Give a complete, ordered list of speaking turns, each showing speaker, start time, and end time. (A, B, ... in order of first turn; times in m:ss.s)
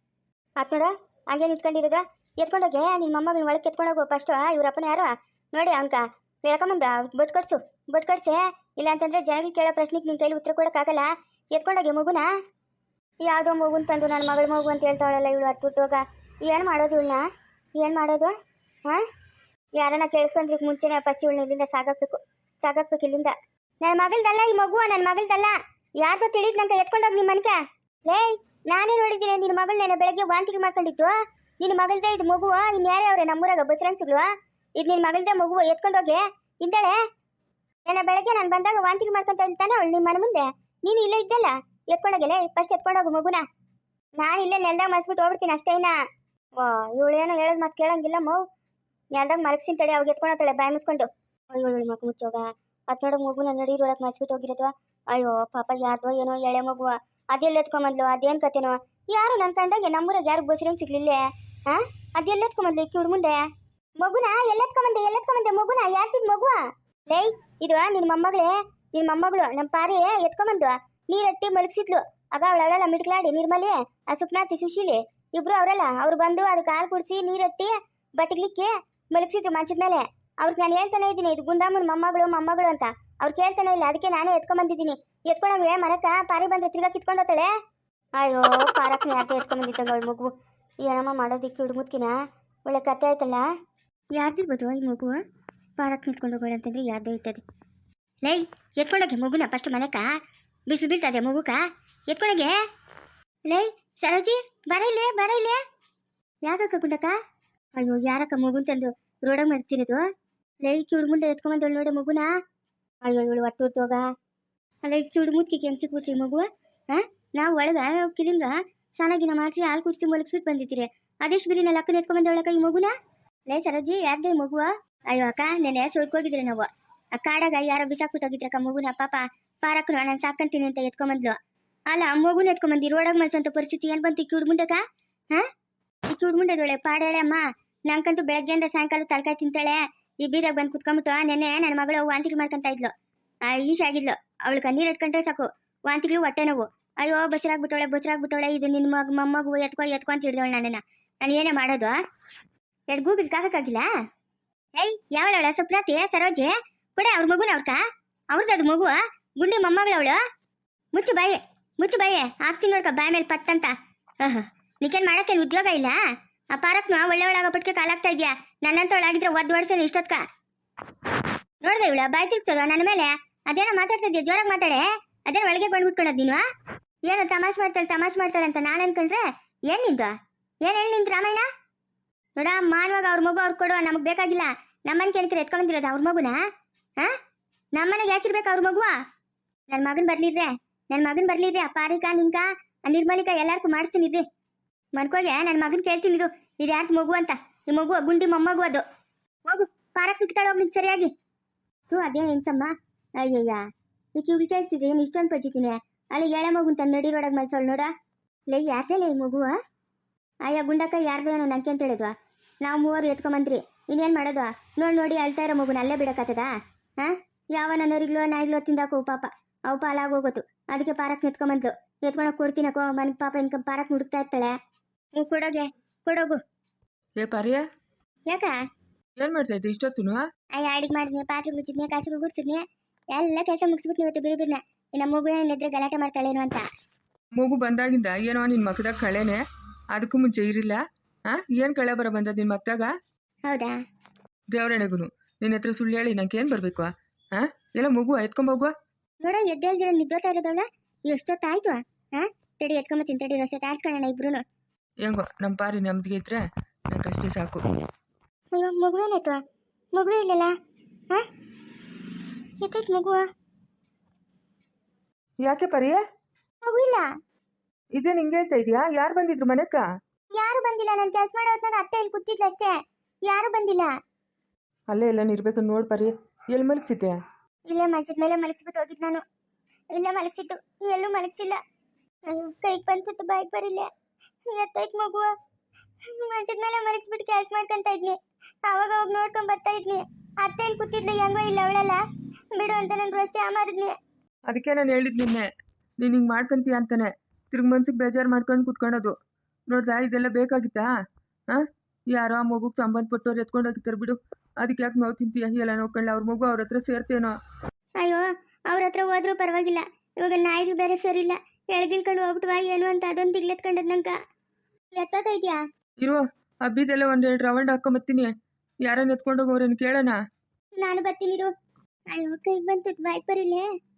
0:00.6-0:12.3 A
0:13.2-0:17.2 A
0:17.8-0:18.3 A
0:19.8-0:37.0 A
0:37.8-0:43.4 A
0:44.2-0:46.0 A
0:46.6-0:48.4 A
0:49.1-1:03.4 A
1:04.0-1:27.5 A
1:28.2-1:30.3 A
1:30.8-1:32.1 A
1:32.7-1:33.4 A
1:34.1-1:35.2 A
1:35.8-1:37.4 A
1:38.2-1:40.1 A
1:40.7-1:42.5 A
1:43.5-1:45.6 A
1:46.4-1:47.1 A
1:47.8-1:50.0 A
1:50.6-1:52.3 A
1:53.0-1:54.0 A
1:54.8-2:02.9 A
2:03.5-2:11.4 A
2:11.9-2:14.8 A
2:16.1-2:22.9 A
2:23.5-2:31.9 A
2:32.9-2:33.9 A
2:34.8-2:37.8 A
2:38.3-2:40.2 A
2:40.9-2:46.0 A
2:46.5-2:50.2 A
2:51.6-2:56.4 A
2:57.0-3:01.4 A
3:02.4-3:06.4 A
3:07.8-3:09.0 A
3:09.7-3:14.2 A
3:15.0-3:18.8 A
3:19.4-3:21.1 A
3:21.9-3:23.6 A
3:24.2-3:27.9 A
3:28.5-3:29.5 A
3:30.4-3:44.5 A
3:45.1-3:46.4 A
3:47.2-3:47.6 B
3:48.3-3:48.6 A
3:49.2-3:50.2 B
3:50.6-3:52.6 A
3:53.1-3:56.6 A
3:57.4-3:59.4 B
3:59.9-4:02.9 B
4:03.5-4:03.7 A
4:04.5-4:08.7 B
4:09.2-4:14.4 A
4:15.0-4:17.6 B
4:18.5-4:19.4 A
4:19.9-4:20.5 A
4:22.6-4:23.3 A
4:25.4-4:26.0 B
4:26.6-4:27.1 A
4:27.9-4:29.8 B
4:30.3-4:33.9 A
4:34.9-4:37.2 B
4:37.7-4:39.2 A
4:39.9-4:41.6 A
4:42.3-4:43.9 A
4:44.5-4:45.3 A
4:46.0-4:52.0 A
4:52.5-4:54.0 A
4:54.5-4:55.5 B
4:56.0-4:59.1 B
4:59.7-5:00.9 B
5:01.5-5:07.4 B
5:08.0-5:14.2 A
5:15.0-5:15.6 A
5:16.0-5:20.2 B
5:20.8-5:21.5 A
5:22.1-5:23.6 A